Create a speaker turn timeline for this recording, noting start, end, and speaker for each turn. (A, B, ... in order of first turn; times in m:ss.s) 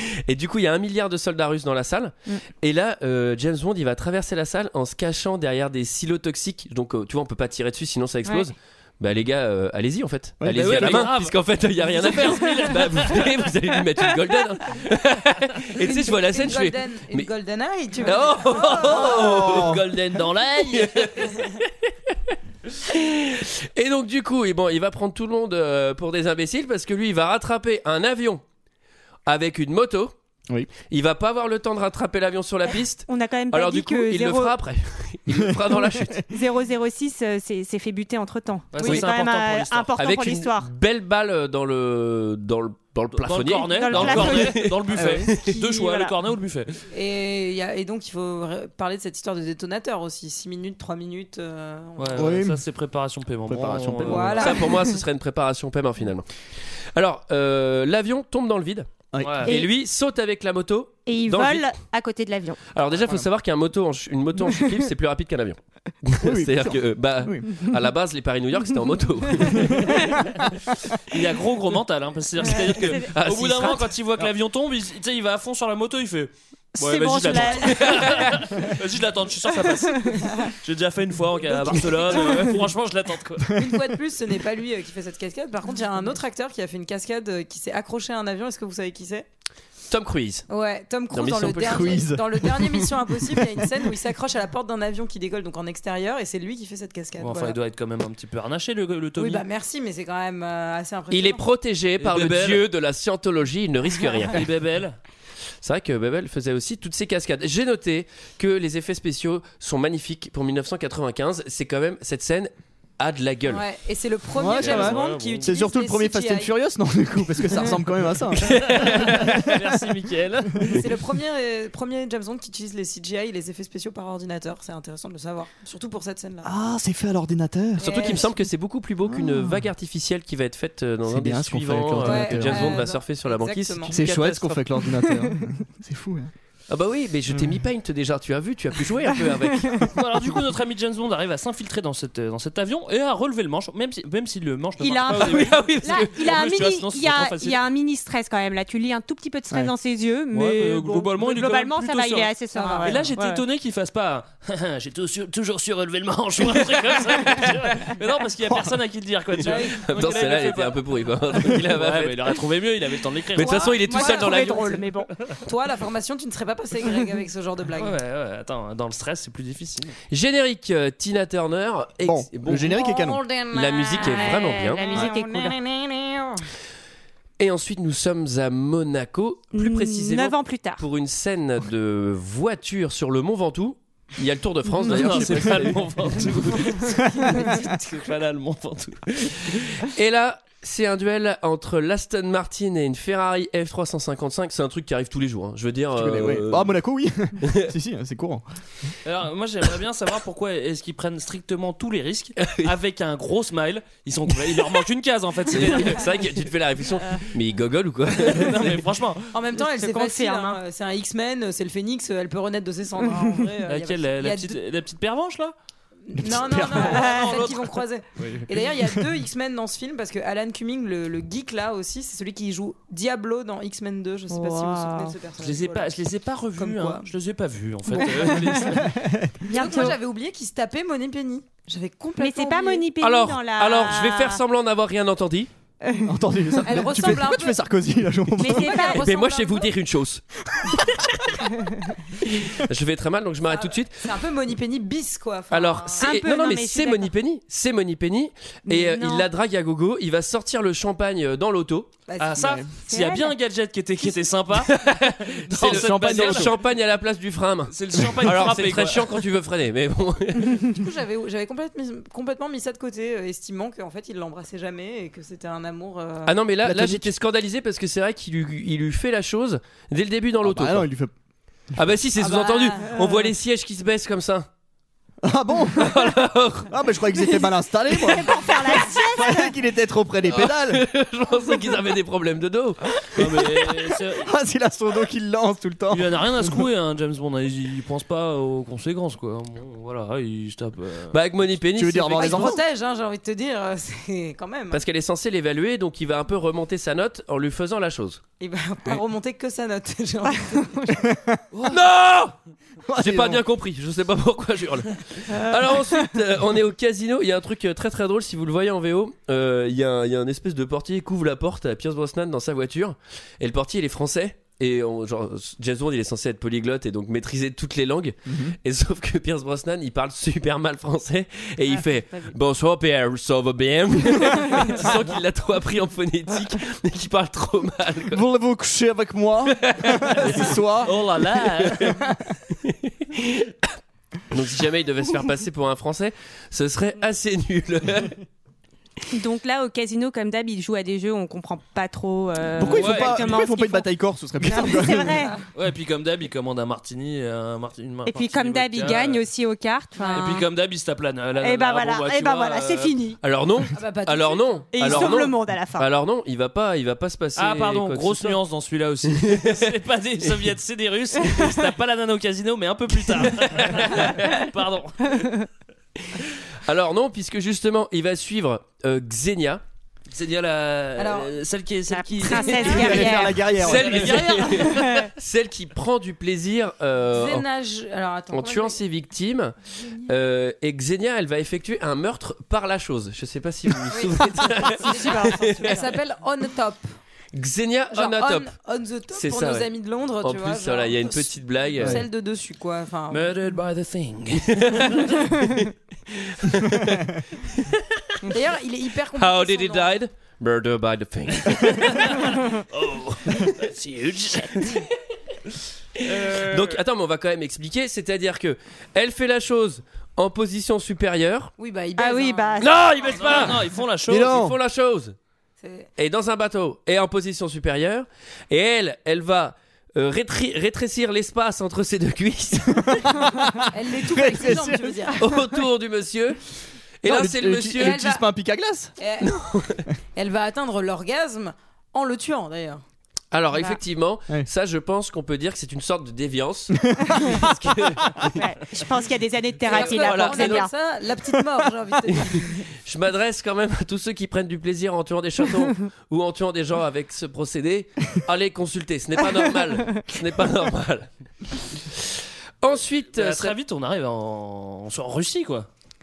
0:00.2-0:17.3 A
0:10.4-0:11.1 B
0:10.5-0:13.3 C
0:15.8-0:19.5 D
0:18.0-0:21.3 A
0:19.2-0:19.8 B
0:20.1-0:21.3 C
0:22.8-0:28.4 A
0:29.2-0:30.1 A
0:30.9-0:36.2 A
0:33.1-0:34.6 E
0:35.3-0:36.2 B
0:36.3-0:40.7 E
0:38.7-0:39.9 C
0:40.0-0:45.4 A
0:43.2-0:46.8 C
0:43.7-0:46.1 E
0:46.9-0:52.4 D
0:52.0-0:54.5 C
0:52.1-0:52.6 B
0:53.4-0:54.5 B
0:54.0-0:54.8 D
0:54.4-0:56.3 A
0:56.9-0:58.9 A
0:59.1-0:59.5 B
0:59.2-0:59.5 C
0:59.4-0:59.7 E
0:59.4-1:01.7 A
1:01.0-1:02.6 E
1:02.7-1:10.0 A
1:06.2-1:07.8 B
1:11.1-1:23.6 C
1:12.6-1:13.1 E
1:12.9-1:13.9 A
1:16.8-1:18.4 E
1:21.5-1:22.6 D
1:23.5-1:23.9 B
1:23.5-1:29.2 D
1:29.9-1:30.4 A
1:30.5-1:37.6 D
1:31.1-1:32.0 A
1:31.6-1:32.9 B
1:37.2-1:39.4 C
1:39.2-1:41.4 D
1:41.1-1:44.4 A
1:42.0-1:42.6 C
1:44.3-1:45.0 C
1:45.6-1:53.6 A
1:53.5-1:56.5 D
1:54.4-1:59.6 B
1:54.5-1:55.5 C
1:58.4-1:59.2 A
1:58.4-2:00.8 C
2:00.7-2:06.5 D
2:06.4-2:08.3 B
2:07.8-2:14.8 A
2:07.8-2:08.2 D
2:09.0-2:09.6 B
2:11.0-2:12.8 B
2:12.0-2:14.0 D
2:13.9-2:16.3 B
2:16.7-2:19.9 A
2:17.3-2:17.6 B
2:19.9-2:27.6 C
2:24.8-2:33.4 E
2:25.1-2:26.1 A
2:30.3-2:43.8 C
2:32.5-2:33.1 D
2:38.5-2:38.7 B
2:39.4-2:39.8 D
2:39.8-2:42.4 A
2:43.4-2:44.8 A
2:43.4-2:44.6 D
2:43.7-2:45.1 E
2:45.4-2:48.0 D
2:47.8-2:50.0 C
2:50.1-2:52.8 A
2:52.0-2:53.2 B
2:52.7-2:56.1 D
2:53.5-2:55.0 A
2:54.0-2:55.6 E
2:57.4-3:06.4 A
2:59.5-3:00.8 E
3:04.8-3:09.6 C
3:07.1-3:07.4 B
3:09.8-3:16.8 A
3:15.9-3:18.4 B
3:17.4-3:17.7 A
3:19.0-3:26.1 C
3:22.4-3:22.7 A
3:25.5-3:28.8 A
3:28.2-3:29.3 C
3:29.3-3:34.6 D
3:29.6-3:30.6 E
3:33.7-3:35.5 C
3:36.0-3:46.0 D
3:36.1-3:37.2 B
3:36.6-3:37.8 C
3:36.9-3:37.4 E
3:38.2-3:39.0 B
3:44.3-3:45.2 E
3:45.4-3:48.9 C
3:46.6-3:47.0 D
3:48.0-3:49.5 B
3:49.5-3:50.0 E
3:49.5-3:52.9 D
3:52.2-3:54.4 E
3:53.0-3:55.5 A
3:55.8-3:56.1 E
3:56.0-3:58.8 B
3:56.6-3:57.6 D
3:58.4-3:59.1 E
3:58.5-3:59.7 D
3:58.8-4:01.4 A
4:02.2-4:04.0 A
4:03.5-4:06.1 D
4:05.5-4:11.9 A
4:06.0-4:07.1 E
4:08.7-4:09.3 E
4:12.1-4:12.6 D
4:12.2-4:16.5 C
4:12.4-4:12.7 B
4:12.9-4:13.3 E
4:14.6-4:20.7 A
4:15.6-4:16.5 B
4:17.7-4:19.1 C
4:18.2-4:18.5 B
4:20.7-4:26.4 D
4:26.2-4:30.9 A
4:26.6-4:27.1 B
4:30.4-4:31.1 B
4:31.7-4:34.5 A
4:32.2-4:33.2 D
4:35.2-4:36.2 B
4:35.8-4:36.7 A
4:36.7-4:40.8 B
4:38.0-4:39.5 E
4:40.3-4:42.8 A
4:43.2-4:44.3 C
4:44.2-4:46.6 B
4:45.9-4:51.2 C
4:51.1-4:52.6 A
4:51.7-4:52.6 B
4:52.1-4:54.8 D
4:54.7-4:58.2 A
4:58.4-5:01.1 D
5:01.1-5:01.4 B
5:01.7-5:02.3 A
5:02.8-5:03.4 B
5:03.0-5:28.2 A
5:18.3-5:18.5 B
5:21.7-5:22.3 E
5:28.1-5:31.0 B
5:29.7-5:30.4 A
5:30.8-5:32.0 C
5:32.6-5:33.5 A
5:34.3-5:38.2 A
5:39.1-5:43.9 E
5:42.5-5:45.3 B
5:42.7-5:43.3 C
5:44.4-5:45.3 E
5:45.5-5:49.2 C
5:48.0-5:50.5 E
5:50.0-5:50.4 D
5:50.1-5:52.9 C
5:51.4-5:53.2 E
5:53.2-5:58.4 A
5:53.7-5:55.2 D
5:54.7-5:55.9 E
5:57.4-6:05.3 C
5:59.2-5:59.6 A
6:03.6-6:04.2 A
6:05.2-6:05.4 E
6:06.6-6:09.6 A
6:10.1-6:14.8 C
6:11.0-6:11.4 D
6:11.9-6:13.4 E
6:12.2-6:12.9 D
6:12.6-6:14.2 B
6:13.6-6:17.4 A
6:14.6-6:15.1 E
6:17.1-6:18.8 D
6:18.3-6:19.5 A
6:20.0-6:25.8 A
6:23.9-6:26.9 D
6:27.3-6:28.5 A
6:27.9-6:33.3 D
6:29.1-6:29.7 A
6:30.2-6:32.0 A
6:33.1-6:35.3 C
6:34.8-6:35.7 A
6:36.4-6:37.6 A
6:38.3-6:39.9 D
6:39.2-6:41.8 A
6:41.6-6:44.8 C
6:46.0-6:46.8 C
6:46.2-6:51.5 A
6:51.6-6:52.6 D
6:52.0-6:52.7 E
6:52.6-6:53.6 A
6:53.1-6:54.4 C
6:54.1-6:54.6 B
6:54.2-6:55.1 A
6:55.6-6:55.9 D
6:56.0-7:03.1 A
7:02.9-7:05.1 B
7:03.7-7:05.3 D
7:05.2-7:06.4 A
7:07.0-7:08.0 A
7:07.0-7:08.9 B
7:07.8-7:08.2 D
7:09.0-7:09.3 D
7:09.2-7:09.8 A
7:10.1-7:12.8 D
7:13.3-7:18.4 A
7:16.7-7:17.4 B
7:18.2-7:20.7 E
7:19.7-7:22.6 D
7:19.7-7:20.7 A
7:22.8-7:31.1 A
7:31.9-7:33.5 A
7:33.1-7:35.7 C